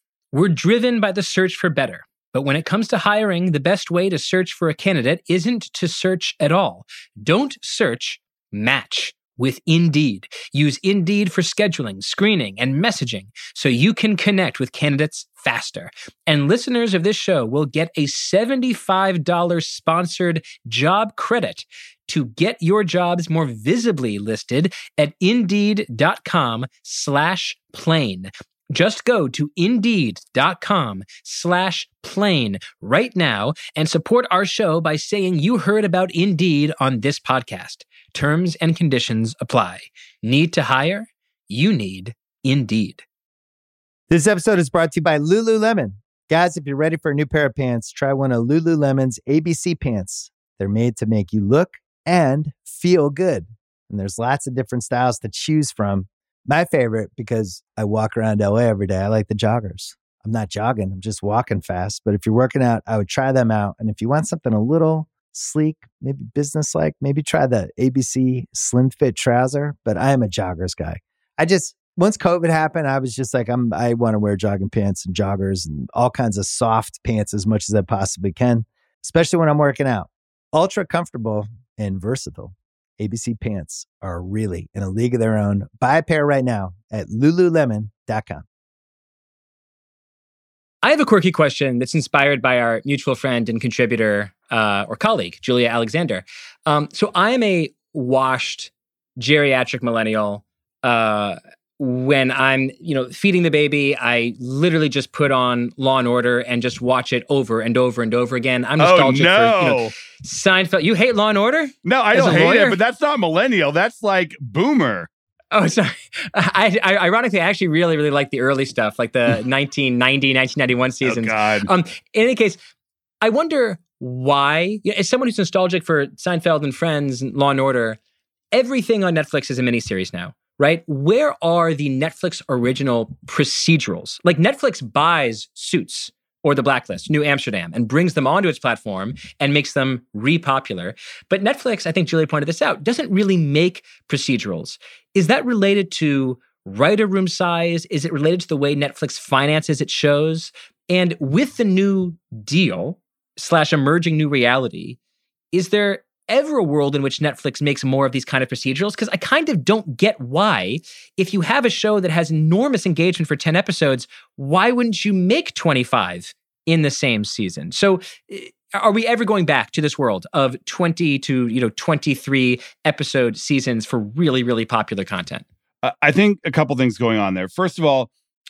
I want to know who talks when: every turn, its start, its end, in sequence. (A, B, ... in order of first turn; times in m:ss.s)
0:00.3-0:43.0 A
0:44.1-1:28.4 B
1:30.8-1:52.8 A
1:48.8-1:49.9 C
1:51.8-1:55.1 C
1:55.5-2:02.6 A
2:01.0-2:01.7 C
2:03.2-2:08.0 A
2:08.5-2:35.0 A
2:35.5-2:55.4 A
2:55.8-2:58.1 C